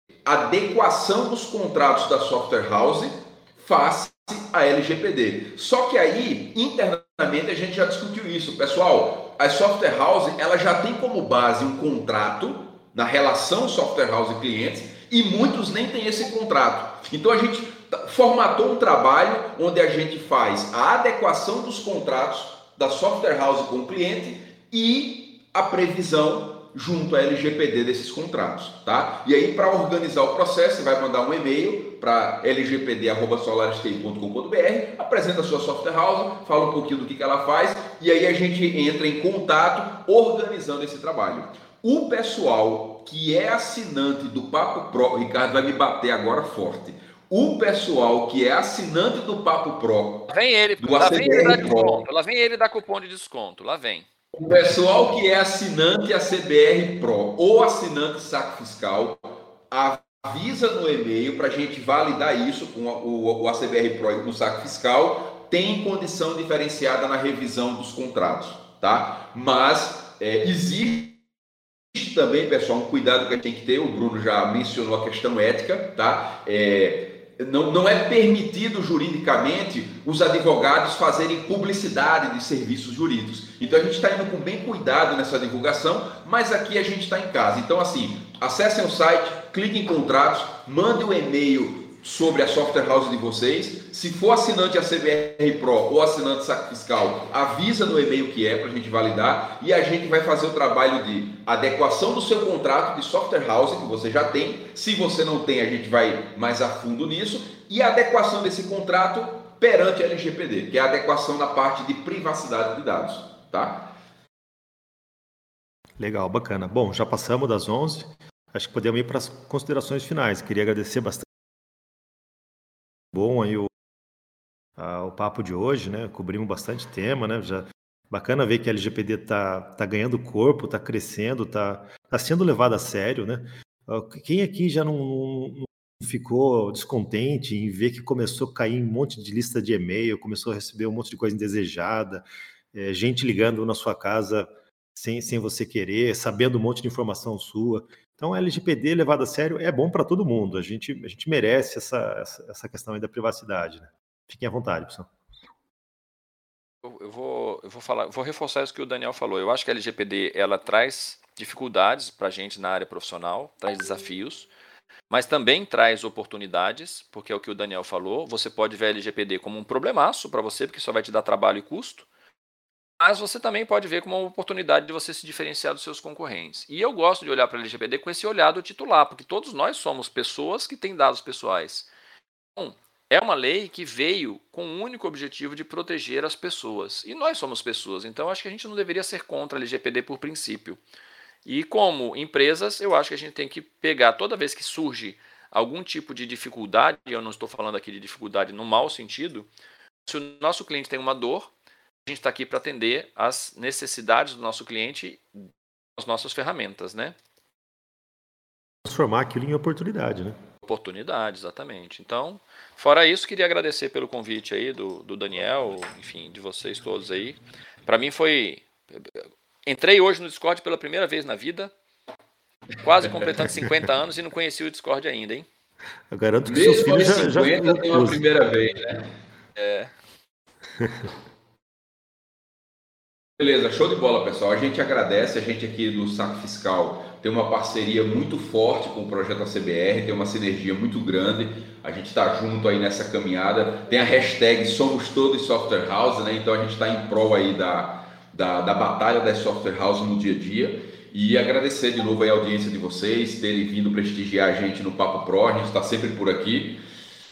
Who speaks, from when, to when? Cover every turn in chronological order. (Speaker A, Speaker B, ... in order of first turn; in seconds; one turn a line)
Speaker A: 0.2-52.0
Speaker B: 50.3-54.1
Speaker A: 54.3-71.2
Speaker A: 71.9-113.9
Speaker C: 116.0-121.3
Speaker C: 123.1-123.7
Speaker C: 124.8-155.1
Speaker B: 156.8-164.5
Speaker B: 165.1-172.1
Speaker B: 173.0-181.9
Speaker B: 182.6-190.8
Speaker B: 191.4-199.5
Speaker B: 200.1-201.5
Speaker B: 202.1-205.4
Speaker B: 206.0-207.2
Speaker C: 208.8-210.4
Speaker B: 210.6-221.7
Speaker B: 222.8-225.5
Speaker C: 226.1-228.2
Speaker A: 226.5-229.1
Speaker B: 229.6-229.9
Speaker C: 230.8-231.1
Speaker A: 233.4-256.8